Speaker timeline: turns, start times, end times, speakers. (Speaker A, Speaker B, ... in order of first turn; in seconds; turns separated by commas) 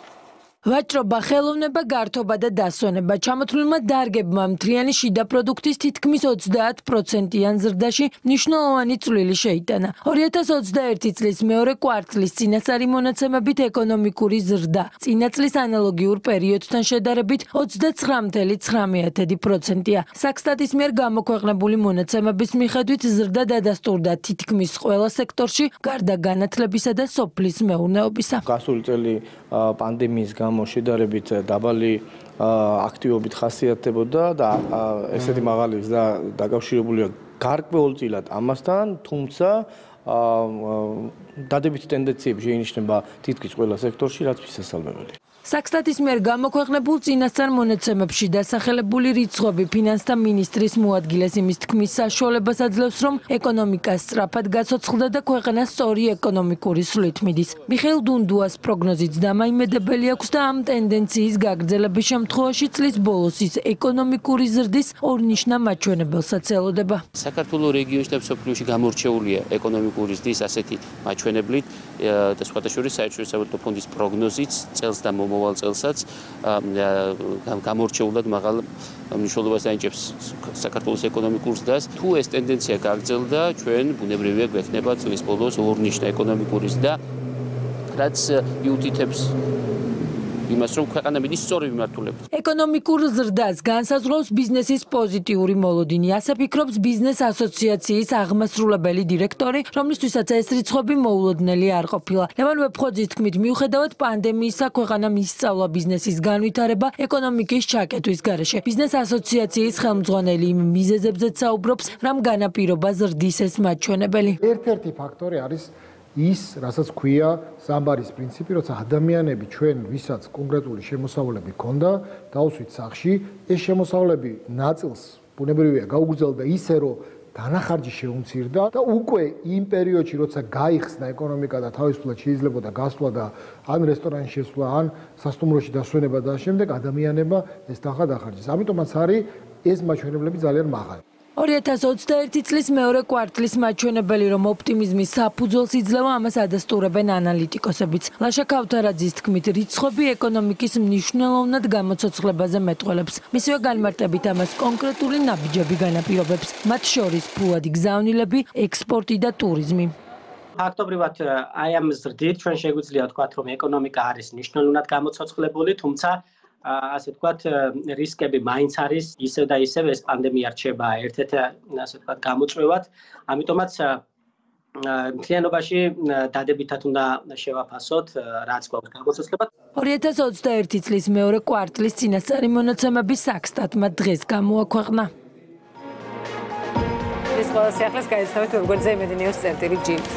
Speaker A: 0.6-28.4, Speaker B: 28.4-45.1, Speaker A: 45.4-67.0, Speaker C: 67.1-87.0, Speaker C: 87.9-89.3, Speaker C: 90.5-92.2, Speaker A: 92.3-114.4, Speaker D: 114.4-141.0, Speaker A: 141.4-159.9, Speaker E: 160.6-174.0, Speaker E: 174.8-179.5, Speaker A: 179.7-185.1, Speaker F: 187.3-190.0